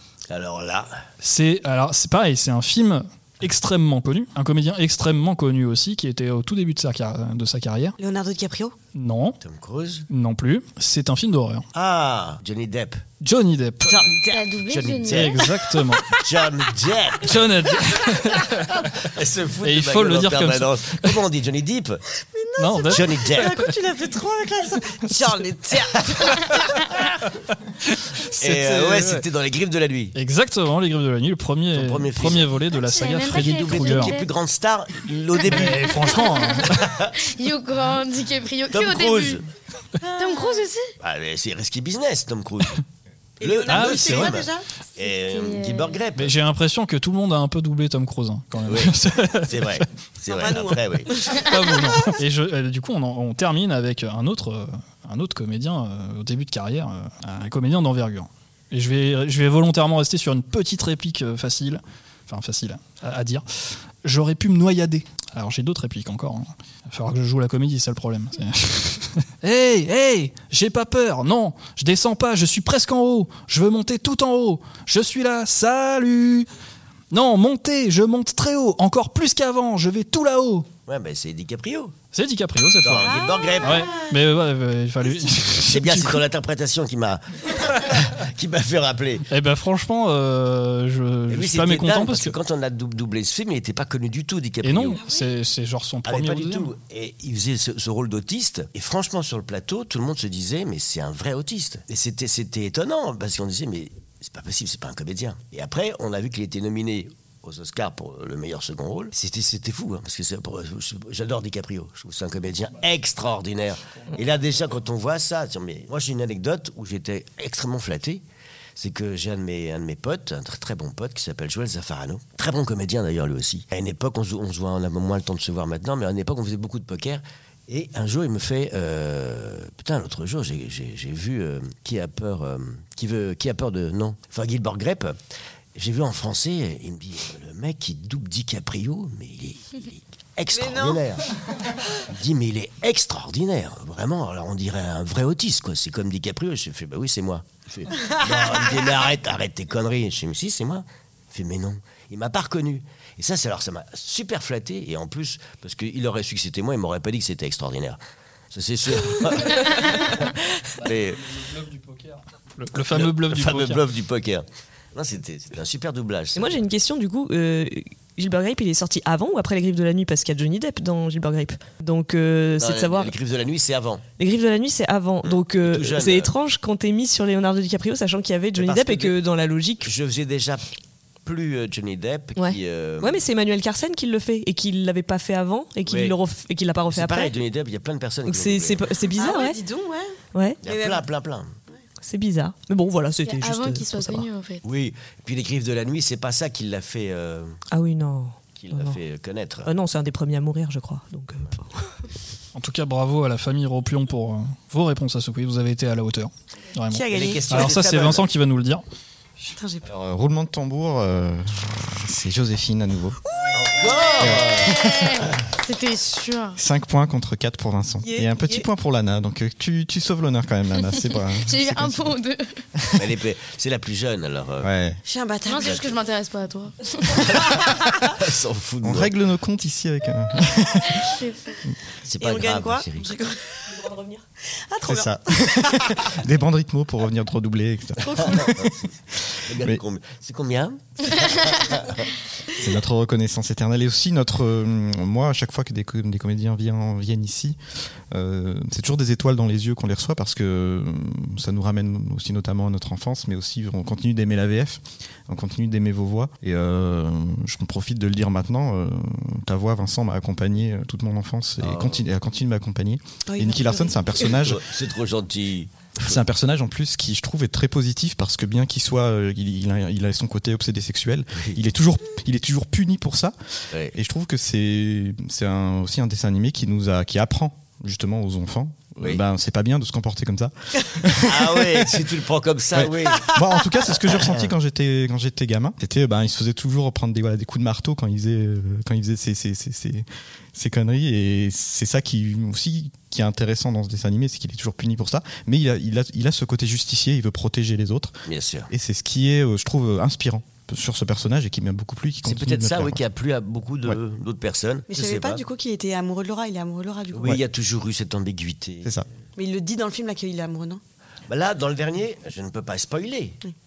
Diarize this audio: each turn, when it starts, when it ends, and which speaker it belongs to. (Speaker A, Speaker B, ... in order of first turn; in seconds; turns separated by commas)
Speaker A: 0.3-0.9, Speaker B: 1.2-7.9, Speaker C: 8.0-8.7, Speaker B: 8.9-9.4, Speaker A: 9.4-10.1, Speaker B: 10.1-11.7, Speaker A: 11.7-13.0, Speaker B: 13.2-14.0, Speaker C: 13.8-14.9, Speaker D: 14.3-15.5, Speaker A: 14.7-15.5, Speaker B: 15.1-16.2, Speaker A: 16.1-17.6, Speaker B: 17.2-18.9, Speaker A: 18.5-22.0, Speaker B: 19.6-21.2, Speaker C: 22.2-26.5, Speaker B: 22.6-23.7, Speaker A: 22.9-23.6, Speaker A: 26.0-26.4, Speaker B: 28.3-29.2, Speaker A: 28.4-30.1, Speaker B: 30.1-34.2, Speaker A: 31.7-32.6, Speaker D: 32.9-34.3, Speaker A: 33.3-36.1, Speaker D: 35.5-36.6, Speaker B: 35.5-36.9, Speaker A: 36.8-37.1, Speaker D: 37.2-39.4, Speaker A: 38.7-39.4, Speaker C: 40.0-40.7, Speaker D: 40.2-40.9, Speaker A: 41.0-42.8, Speaker C: 43.4-44.6, Speaker A: 43.4-46.4, Speaker B: 43.7-44.3, Speaker D: 45.0-46.0, Speaker B: 46.2-49.9, Speaker A: 48.7-51.5, Speaker C: 50.3-51.9, Speaker B: 51.3-63.5, Speaker B: 64.0-76.5, Speaker B: 77.1-80.7, Speaker A: 80.9-82.0, Speaker B: 82.1-83.1, Speaker A: 82.8-84.0, Speaker C: 83.1-84.1, Speaker B: 83.6-86.2, Speaker A: 85.5-89.3, Speaker B: 89.3-92.4, Speaker A: 91.3-95.1, Speaker B: 94.6-96.7, Speaker C: 95.0-95.3, Speaker A: 96.0-118.2, Speaker A: 118.8-135.2, Speaker A: 135.8-141.2, Speaker C: 140.5-141.0, Speaker A: 142.0-158.0, Speaker C: 148.0-148.5, Speaker A: 158.5-161.4, Speaker B: 160.8-163.9, Speaker A: 162.8-166.6, Speaker E: 166.3-173.1, Speaker A: 172.6-174.0, Speaker E: 174.2-179.9, Speaker A: 175.2-176.3, Speaker A: 178.6-179.1, Speaker A: 179.8-180.6, Speaker A: 181.2-183.2, Speaker E: 182.4-187.3, Speaker A: 185.9-186.1, Speaker A: 186.9-188.9, Speaker E: 188.3-189.6, Speaker C: 189.1-191.0, Speaker E: 190.3-190.6, Speaker A: 190.6-191.5, Speaker E: 192.1-194.3, Speaker D: 193.2-194.6, Speaker A: 194.6-197.6, Speaker E: 197.7-199.0, Speaker A: 198.6-199.7, Speaker E: 199.6-201.9, Speaker B: 202.6-208.8, Speaker C: 206.9-207.7, Speaker A: 207.1-208.3, Speaker C: 209.4-209.9, Speaker F: 209.8-213.2, Speaker C: 213.3-214.4, Speaker A: 213.5-214.9, Speaker F: 214.2-215.3, Speaker D: 214.7-216.5, Speaker C: 215.9-216.6, Speaker F: 216.6-222.1, Speaker C: 218.0-218.7, Speaker D: 221.1-222.6, Speaker F: 222.8-223.1, Speaker A: 222.9-224.7, Speaker F: 224.6-225.0, Speaker C: 225.0-225.8, Speaker D: 225.4-227.5, Speaker A: 227.2-229.1, Speaker F: 228.8-231.1, Speaker D: 231.0-231.3, Speaker A: 232.1-233.1, Speaker C: 232.1-234.0, Speaker C: 234.6-236.1, Speaker F: 234.8-239.8, Speaker A: 238.1-238.7, Speaker A: 239.4-242.1, Speaker F: 242.6-247.6, Speaker F: 248.1-264.6, Speaker A: 261.6-262.0, Speaker C: 263.3-264.0, Speaker A: 264.3-266.2, Speaker F: 266.0-282.0, Speaker A: 281.2-283.4, Speaker F: 282.7-303.0, Speaker A: 284.1-284.5, Speaker A: 298.3-298.7, Speaker A: 302.2-305.4, Speaker C: 304.9-307.4, Speaker A: 307.1-309.0, Speaker C: 309.4-310.8, Speaker A: 311.3-313.4